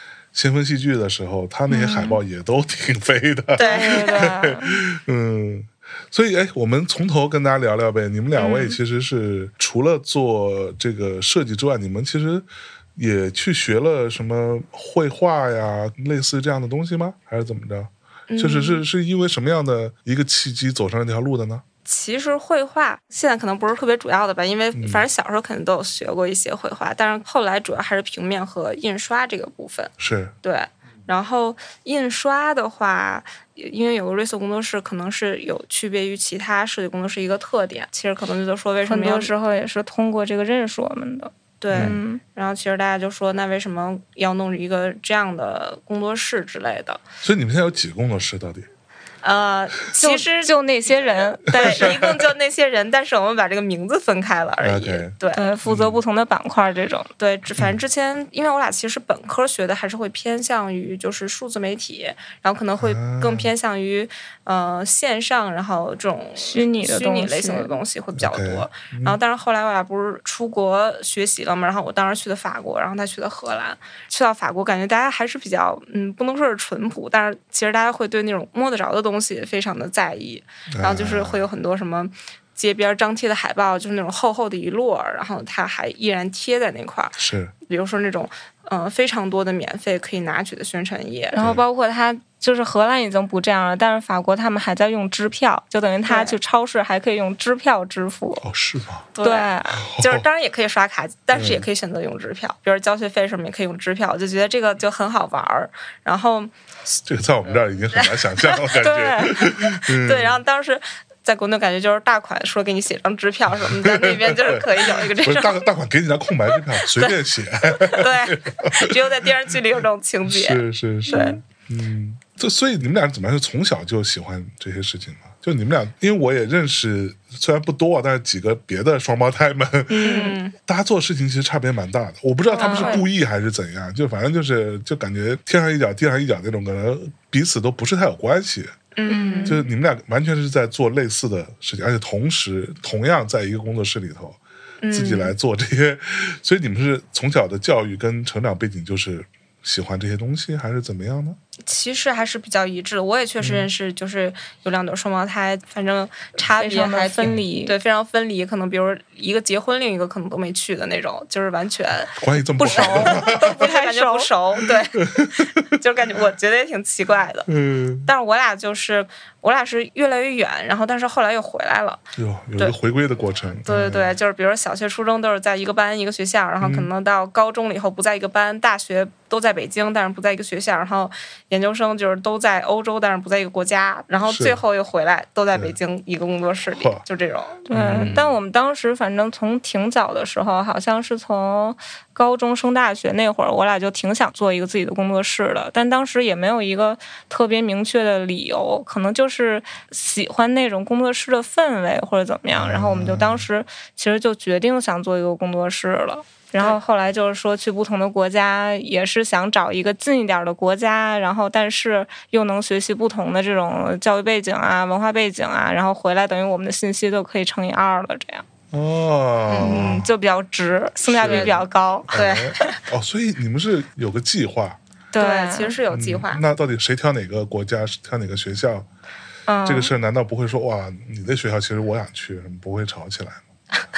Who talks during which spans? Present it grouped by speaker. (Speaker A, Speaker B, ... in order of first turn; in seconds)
Speaker A: 0.3-21.6, 24.8-25.0, 30.0-30.4, 47.2-48.7, 51.6-52.2, 54.6-55.1, 55.6-56.0, 62.8-63.5, 68.2-69.2, 80.7-81.4, 87.2-87.5, 91.4-91.6, 98.4-99.1, 99.8-100.3, 101.3-101.6, 107.0-110.4, 113.6-119.0, 120.3-130.1, 130.7-138.7, 139.4-144.4, 144.9-151.4, 153.4-153.7, 162.2-163.6, 165.0-165.7, 167.5-168.1, 172.2-174.2, 176.6-176.9, 184.3-184.6, 186.7-187.0, 187.7-188.4, 202.6-203.5, 218.7-220.1, 221.1-224.8, 225.9-228.9, 229.7-233.4
Speaker B: 1.7-2.2, 3.6-4.8, 8.4-8.8, 38.9-42.2, 50.0-51.9, 55.3-57.1, 66.4-67.8, 91.3-98.4, 99.2-99.8, 108.8-109.5, 121.1-121.4, 130.0-130.4, 132.6-133.1, 139.1-139.6, 156.6-157.8, 162.6-164.3, 187.7-218.5, 219.6-222.1, 225.1-225.8
Speaker C: 3.6-4.2, 18.3-18.8, 21.9-29.9, 30.4-39.3, 41.6-47.0, 49.2-55.4, 57.2-91.4, 96.1-96.4, 99.2-106.9, 108.0-108.6, 109.9-115.7, 116.9-117.2, 117.7-121.4, 129.9-130.5, 132.5-133.0, 139.0-139.6, 144.8-145.3, 151.7-167.5, 168.0-172.0, 173.7-188.2, 219.5-220.1, 221.2-221.6, 222.1-222.8, 225.2-226.4, 229.5-229.9